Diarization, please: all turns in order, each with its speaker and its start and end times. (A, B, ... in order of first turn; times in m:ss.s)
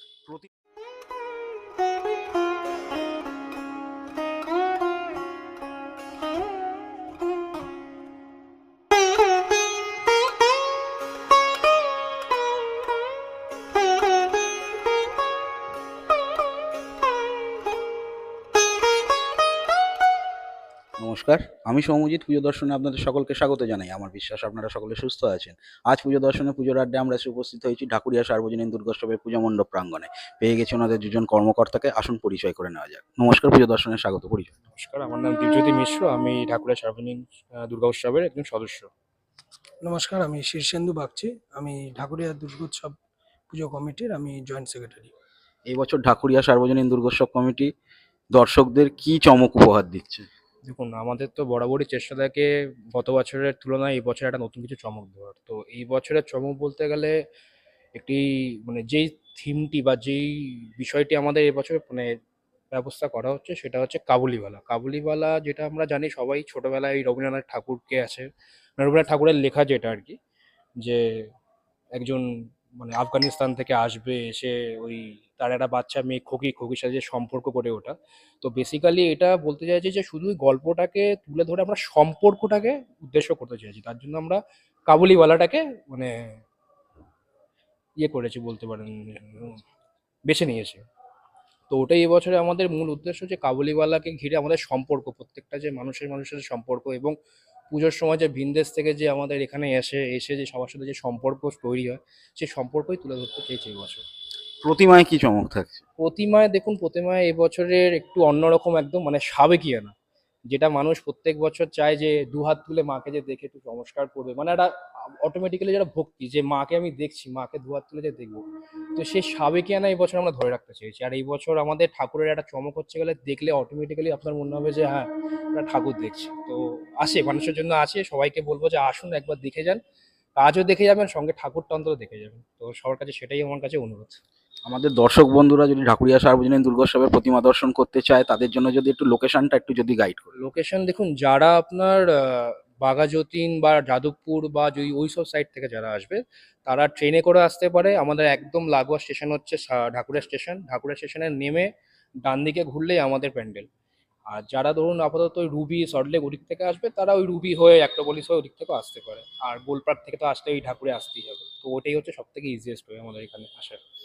0:21.0-0:34.5 A
0:34.7-0:38.9 B
0:39.8-0:42.9 C
0:43.5-0:45.1 C
0:45.7-0:47.7 A
0:48.3-0:50.3 A
0:50.6-0:57.1 B
0:57.9-1:02.2 B
1:02.7-1:10.2 B
1:10.8-1:11.3 B
1:11.9-1:26.4 B
1:28.0-1:29.6 B
1:30.3-1:30.8 B
1:31.7-1:37.2 B
1:37.7-1:44.0 B
1:44.6-1:45.8 A
1:46.0-1:49.9 B
1:50.5-2:09.8 B
2:10.4-2:14.2 B
2:14.6-2:20.3 A
2:20.4-2:31.7 B
2:32.2-2:33.7 B
2:34.3-2:43.8 B